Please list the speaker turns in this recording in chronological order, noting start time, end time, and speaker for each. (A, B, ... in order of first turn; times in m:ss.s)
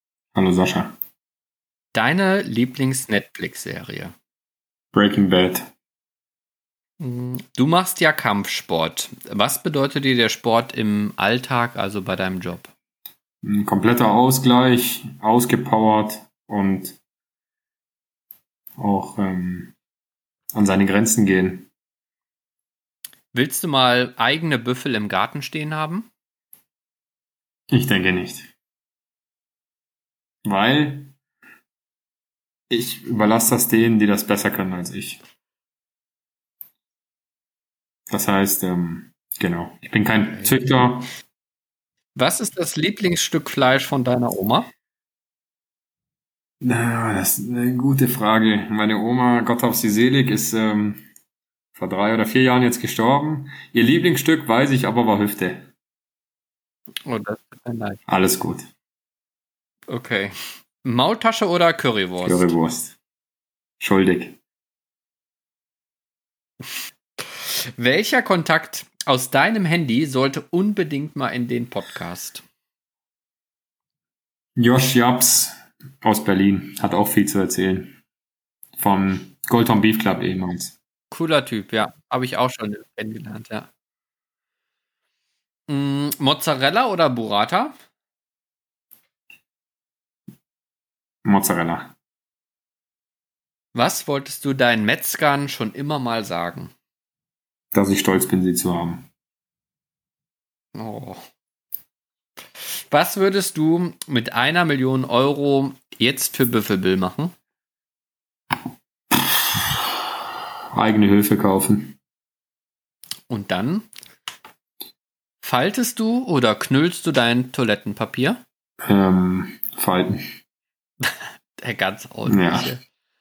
0:00.3-0:01.0 A
0:01.9-0:04.1 B
0:04.9-0:05.7 A
0:07.0-0:12.7 B
0:13.4-0:17.0 A
0:18.8-0:19.7 A
0:20.5-0:21.7 A
0:23.3-0:26.1 B
0:27.7-0:28.5 A
0:30.4-0:31.1 A
0:32.7-0:35.2 A
0:38.1-0:41.1 A
0:40.3-0:40.9 B
0:42.2-0:44.7 B
0:46.6-0:51.0 A
0:51.8-0:55.7 A
0:57.0-0:58.0 B
0:58.1-0:58.7 A
0:59.9-1:02.6 B
1:02.2-1:03.0 A
1:03.8-1:04.4 A
1:07.3-1:12.4 B
1:14.6-1:18.0 A
1:18.8-1:20.8 A
1:21.1-1:23.7 B
1:25.7-1:27.8 B
1:31.2-1:32.0 A
1:33.7-1:36.7 B
1:37.7-1:39.1 A
1:40.8-1:41.2 B
1:42.6-1:47.3 B
1:50.7-1:52.0 A
1:53.3-1:53.9 B
1:55.4-1:58.4 B
1:58.8-2:00.2 A
2:01.0-2:02.8 B
2:02.2-2:02.8 A